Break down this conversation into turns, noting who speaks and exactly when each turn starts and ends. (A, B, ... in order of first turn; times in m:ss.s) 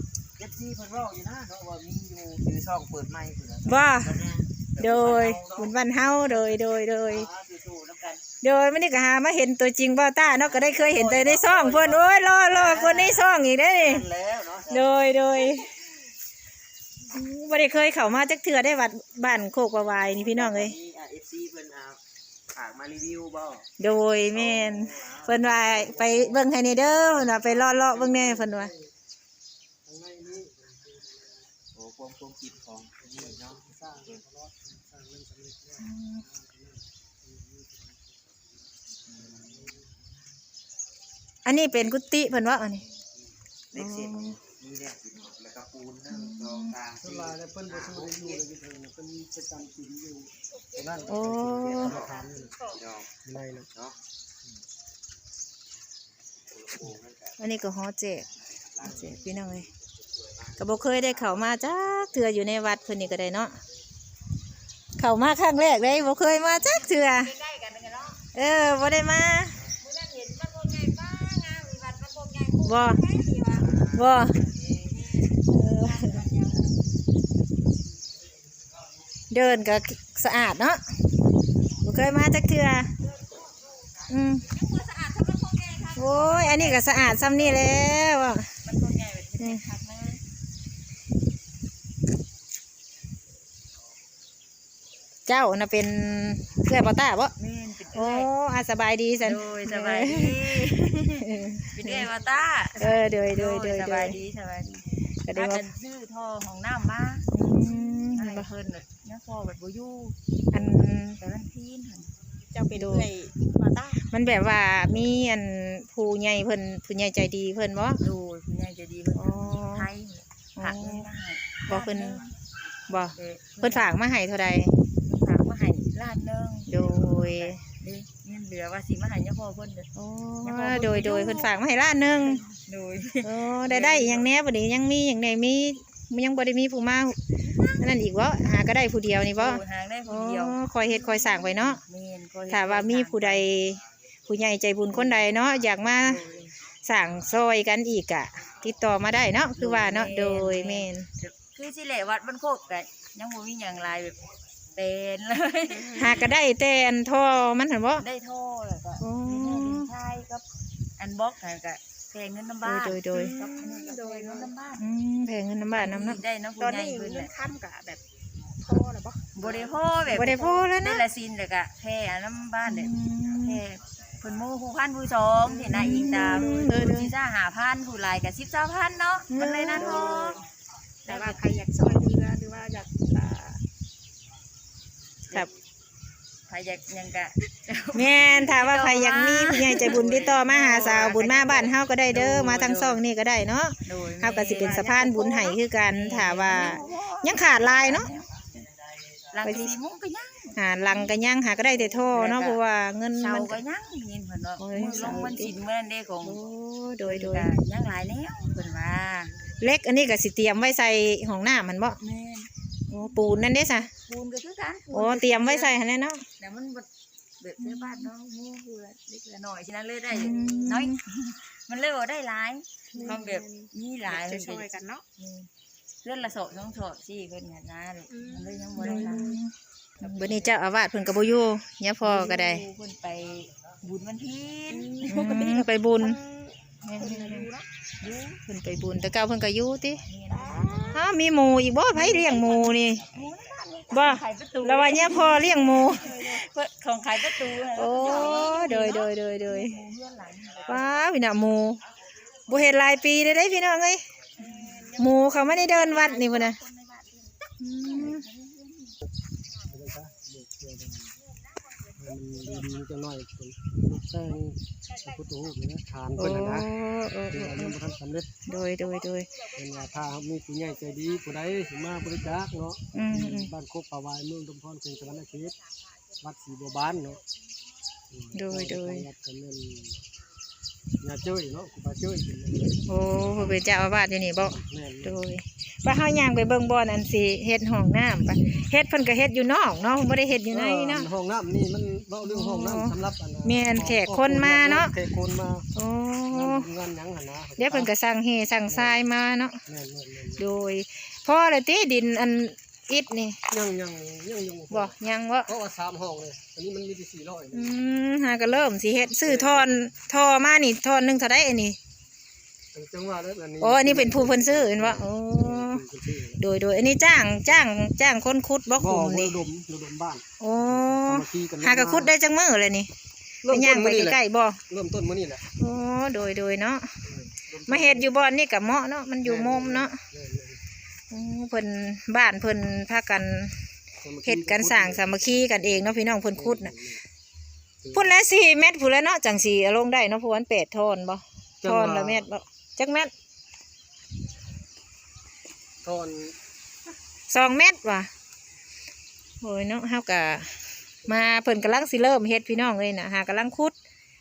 0:00.4-0:08.2 A
0:03.6-0:07.3 B
0:08.4-0:14.1 B
0:10.4-0:14.9 A
0:14.7-0:15.7 B
0:17.1-0:20.8 B
0:20.0-0:22.0 A
0:22.5-0:23.7 A
0:23.8-0:28.7 B
0:24.3-0:26.5 A
0:27.3-0:28.9 C
0:29.8-0:31.5 C
0:31.8-0:33.6 A
0:33.0-0:38.4 C
0:35.8-0:36.2 B
0:39.1-0:39.6 A
0:39.1-0:39.9 C
0:41.4-0:42.8 B
0:43.7-0:48.4 A
0:43.7-0:44.4 B
0:46.1-0:46.8 B
0:47.0-0:52.7 C
0:51.1-0:52.0 B
0:51.4-0:53.2 A
0:53.2-0:53.7 C
0:56.5-0:57.4 A
0:57.4-0:58.3 B
0:58.7-1:01.6 A
0:58.8-0:59.7 B
1:00.6-1:03.6 B
1:05.0-1:07.3 B
1:07.1-1:08.2 D
1:08.3-1:09.7 B
1:09.8-1:14.0 D
1:12.6-1:13.0 B
1:13.6-1:14.0 A
1:13.9-1:14.4 B
1:14.8-1:16.8 D
1:15.5-1:16.2 B
1:19.3-1:20.8 B
1:21.8-1:22.9 B
1:24.1-1:24.5 B
1:24.5-1:27.9 D
1:26.0-1:28.5 B
1:28.6-1:30.2 D
1:35.3-1:37.3 B
1:37.4-1:38.3 D
1:37.9-1:40.6 B
1:39.2-1:52.1 D
1:41.2-1:42.1 B
1:42.8-1:44.2 B
1:45.3-1:45.6 B
1:47.3-1:48.5 B
1:50.5-1:51.2 B
1:52.5-1:54.0 E
1:52.7-1:53.1 B
1:54.0-1:58.0 B
1:58.0-2:02.3 D
1:59.2-1:59.9 B
2:00.6-2:01.1 B
2:01.7-2:02.2 B
2:02.9-2:04.7 B
2:03.2-2:03.9 D
2:05.0-2:09.9 D
2:06.7-2:07.6 B
2:10.0-2:12.4 B
2:10.4-2:11.5 D
2:12.3-2:14.3 D
2:13.2-2:17.2 B
2:17.4-2:18.0 D
2:17.8-2:21.8 B
2:19.3-2:23.5 D
2:22.5-2:26.2 B
2:24.9-2:25.3 D
2:26.0-2:26.5 D
2:26.8-2:31.1 B
2:29.6-2:36.4 D
2:35.9-2:38.0 B
2:38.0-2:40.4 D
2:39.0-2:39.9 B
2:41.0-2:44.8 D
2:42.6-2:43.4 B
2:43.2-2:44.5 E
2:44.7-2:46.2 B
2:45.7-2:47.3 D
2:46.6-2:48.0 E
2:48.6-2:50.7 E
2:49.3-3:00.4 D
2:50.1-2:51.1 B
2:52.6-2:53.6 B
2:55.5-2:55.7 E
2:55.7-2:57.1 B
2:59.3-3:00.4 B
2:59.9-3:00.4 E
3:01.1-3:01.4 D
3:01.1-3:03.6 E
3:06.5-3:13.0 D
3:07.9-3:18.1 B
3:13.8-3:18.4 D
3:19.3-3:22.6 D
3:19.4-3:19.8 B
3:20.6-3:23.6 B
3:23.2-3:26.4 D
3:24.6-3:25.5 B
3:26.2-3:27.5 B
3:27.0-3:29.4 D
3:29.6-3:32.0 B
3:32.0-3:32.5 D
3:32.9-3:33.9 B
3:34.0-3:35.8 D
3:34.9-3:36.2 B
3:36.4-3:36.9 D
3:37.4-3:45.5 D
3:37.6-3:38.1 B
3:40.1-3:41.0 B
3:42.9-3:43.2 B
3:43.0-3:45.0 E
3:46.0-3:49.4 D
3:48.1-3:49.4 E
3:48.8-3:52.6 B
3:50.0-3:50.5 D
3:52.0-3:55.5 D
3:54.7-3:57.7 E
3:55.0-3:56.2 B
3:56.8-3:57.5 B
3:58.0-3:58.4 D
3:58.5-4:00.0 B
4:00.0-4:01.1 D
4:00.3-4:01.0 E
4:00.9-4:03.1 B
4:01.9-4:10.9 D
4:03.9-4:06.1 B
4:07.7-4:09.8 B
4:10.7-4:11.8 B
4:12.5-4:14.0 B
4:14.4-4:19.0 D
4:14.4-4:16.9 E
4:14.9-4:16.6 B
4:17.6-4:18.3 B
4:19.7-4:21.2 C
4:22.0-4:26.7 C
4:26.2-4:27.8 B
4:27.3-4:28.3 C
4:28.5-4:29.3 B
4:29.6-4:35.6 C
4:32.9-4:33.5 B
4:36.2-4:37.2 C
4:38.1-4:40.0 C
4:38.3-4:39.1 B
4:41.0-4:42.8 C
4:42.9-4:51.1 B
4:44.4-4:45.2 C
4:50.5-4:55.7 C
4:52.2-4:52.9 B
4:53.4-4:54.9 B
4:55.8-4:56.7 B
4:56.3-4:57.9 C
4:57.6-4:59.6 B
4:58.7-4:59.0 C
4:59.7-5:00.4 C
5:00.4-5:03.4 B
5:03.5-5:04.9 C
5:04.7-5:05.5 B
5:05.5-5:07.8 C
5:07.5-5:11.8 B
5:09.2-5:09.7 C
5:12.7-5:16.4 C
5:13.6-5:15.8 B
5:16.4-5:19.4 B
5:18.8-5:22.1 C
5:20.4-5:22.9 B
5:23.4-5:25.4 C
5:23.5-5:24.6 B
5:25.6-5:27.0 B
5:27.1-5:28.1 C
5:27.7-5:30.0 B
5:29.2-5:30.6 C
5:31.1-5:33.6 B
5:34.0-5:35.2 C
5:34.2-5:36.7 B
5:36.4-5:37.0 C
5:37.8-5:38.1 C
5:37.9-5:43.1 B
5:41.6-5:42.3 C
5:45.8-5:46.4 C
5:47.3-5:48.1 B
5:49.4-5:53.8 B
5:51.1-5:51.4 C